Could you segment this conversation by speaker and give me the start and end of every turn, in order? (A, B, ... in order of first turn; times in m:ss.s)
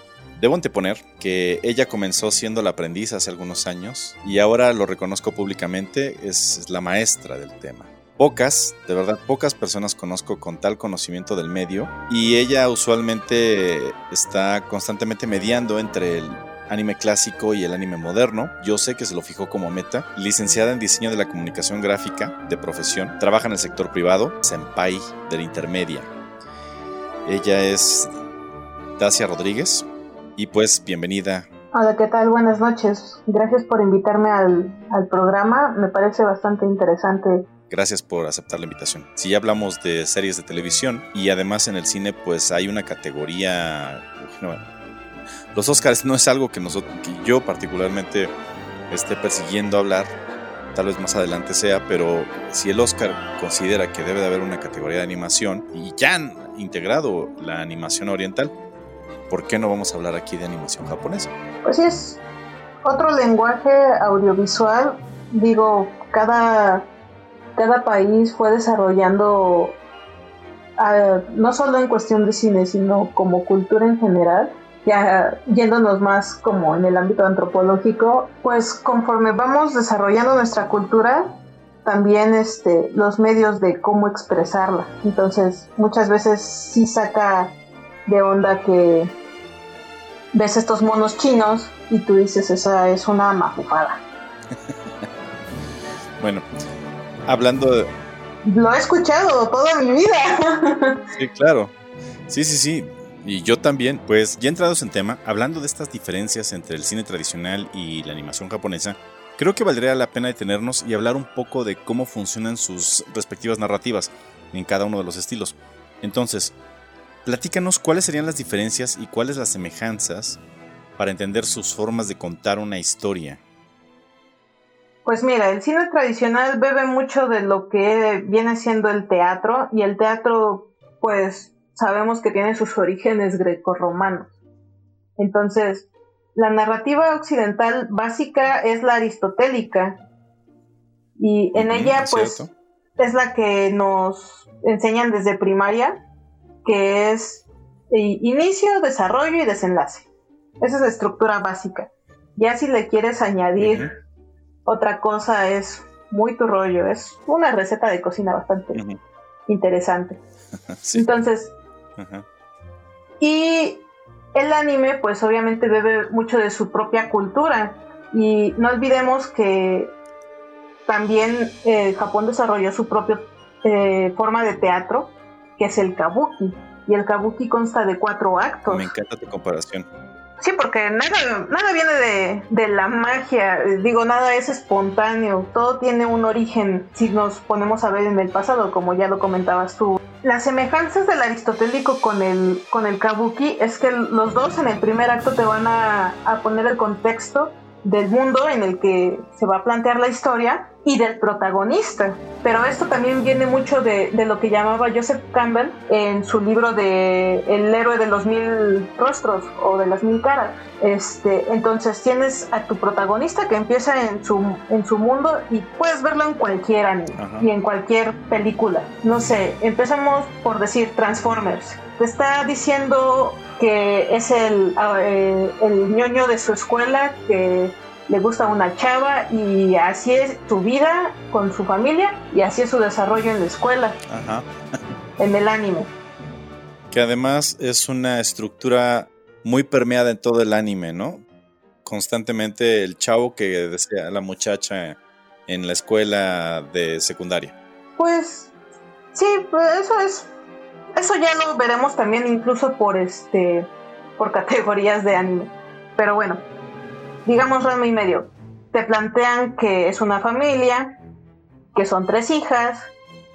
0:00.4-0:26.1 A
0:27.2-0:28.1 A
0:29.0-0:31.5 A
0:31.7-0:37.4 B
0:37.7-0:44.6 A
0:45.5-0:48.3 A
0:48.9-0:50.1 A
0:50.7-0:58.5 A
0:59.3-1:01.3 A
1:01.6-1:02.2 B
1:02.8-1:06.9 B
1:07.6-1:09.8 B
1:10.8-1:29.1 B
1:30.3-1:34.0 B
1:36.2-1:36.4 A
1:37.3-1:37.9 A
1:38.4-1:41.0 B
1:41.1-1:41.7 A
1:42.3-1:56.5 A
1:57.2-2:00.4 A
2:01.0-2:03.4 A
2:05.0-2:14.3 B
2:15.2-2:20.0 B
2:21.2-2:26.0 B
2:21.5-2:22.5 A
2:26.6-2:30.1 B
2:30.6-2:33.9 B
2:33.6-2:33.9 A
2:34.6-2:38.8 B
2:38.7-2:39.0 A
2:39.5-2:40.2 B
2:40.7-2:41.0 A
2:40.9-2:41.5 B
2:42.0-2:42.2 A
2:43.2-2:49.9 B
2:50.9-2:58.9 B
2:58.7-2:59.9 A
3:00.4-3:54.0 B
3:37.2-3:37.4 A
3:54.1-3:54.5 A
3:55.2-3:55.9 B
3:56.9-4:01.2 A
4:01.8-4:07.5 A
4:08.0-4:08.5 B
4:09.1-4:10.3 B
4:10.9-4:16.4 B
4:17.2-4:21.0 B
4:21.7-4:22.9 B